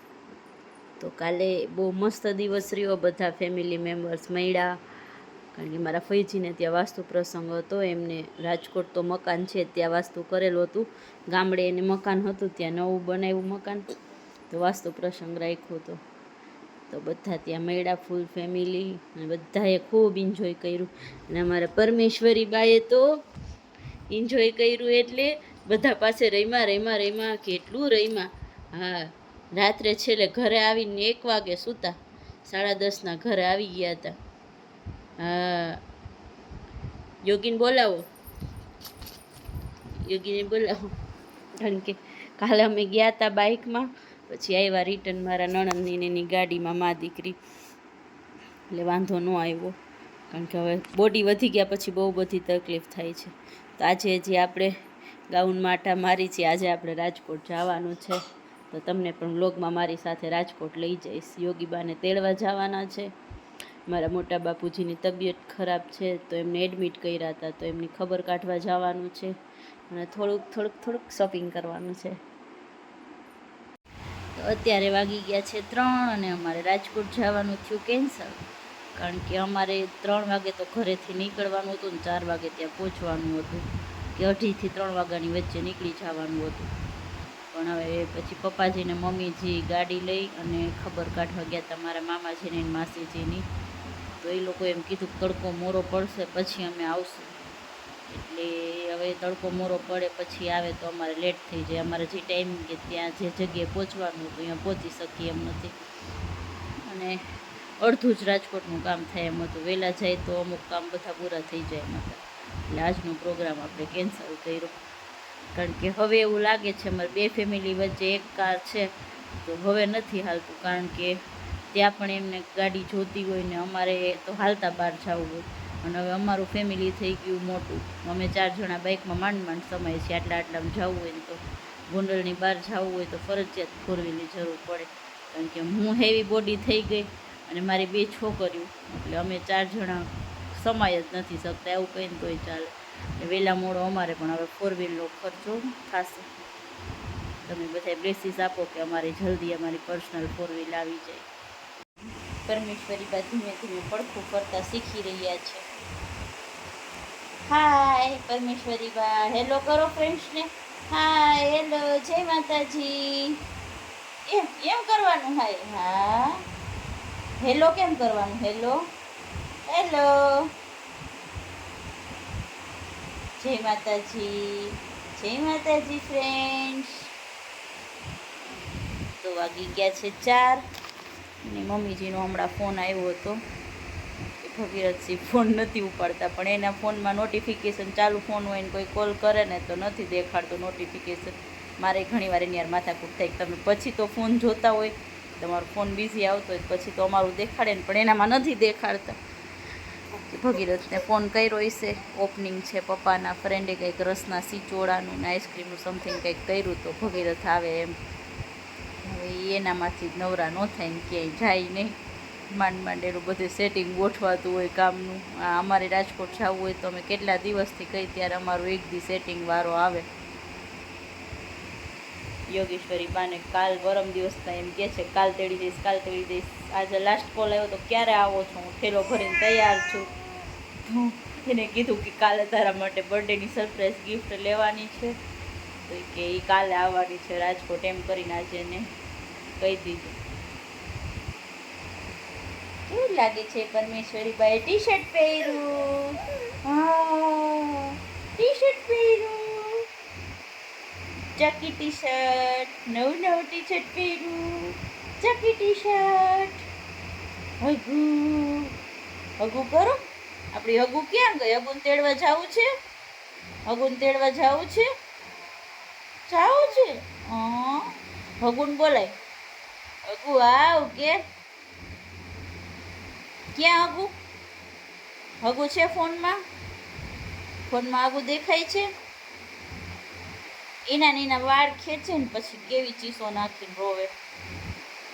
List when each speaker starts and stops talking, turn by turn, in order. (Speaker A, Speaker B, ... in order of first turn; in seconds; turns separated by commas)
Speaker A: 1.0-4.8, Speaker A: 5.5-13.8, Speaker A: 14.5-16.0, Speaker A: 16.9-23.1, Speaker A: 24.1-34.2, Speaker A: 35.2-35.8, Speaker A: 37.2-38.1, Speaker A: 40.1-40.9, Speaker A: 41.6-47.4, Speaker A: 48.7-49.7, Speaker A: 50.3-54.7, Speaker A: 55.3-58.2, Speaker A: 58.7-63.1, Speaker A: 63.9-69.3, Speaker A: 69.9-72.2, Speaker A: 74.3-78.4, Speaker A: 79.0-83.6, Speaker A: 84.2-86.7, Speaker A: 87.5-93.4, Speaker A: 94.2-97.3, Speaker A: 98.1-105.7, Speaker A: 106.9-107.2, Speaker A: 107.8-114.8, Speaker A: 115.5-118.9, Speaker A: 119.4-121.2, Speaker A: 121.7-146.3, Speaker A: 147.4-151.3, Speaker A: 152.4-155.6, Speaker A: 157.5-163.4, Speaker A: 164.3-166.4, Speaker A: 167.4-168.8, Speaker A: 169.7-170.5, Speaker A: 173.4-177.1, Speaker A: 179.2-180.6, Speaker A: 181.4-183.4, Speaker A: 184.4-199.2, Speaker A: 200.2-207.9, Speaker A: 209.0-212.0, Speaker A: 212.5-220.1, Speaker A: 222.5-230.1, Speaker A: 230.8-235.2, Speaker A: 235.9-238.9, Speaker A: 239.6-240.2, Speaker A: 242.9-249.8, Speaker A: 251.4-256.6, Speaker A: 257.6-258.7, Speaker A: 259.4-260.0, Speaker A: 260.5-262.7, Speaker A: 263.7-264.9, Speaker A: 266.3-269.1, Speaker A: 270.1-271.2, Speaker A: 273.5-274.1, Speaker A: 275.4-276.4, Speaker A: 277.7-278.9, Speaker A: 280.9-284.1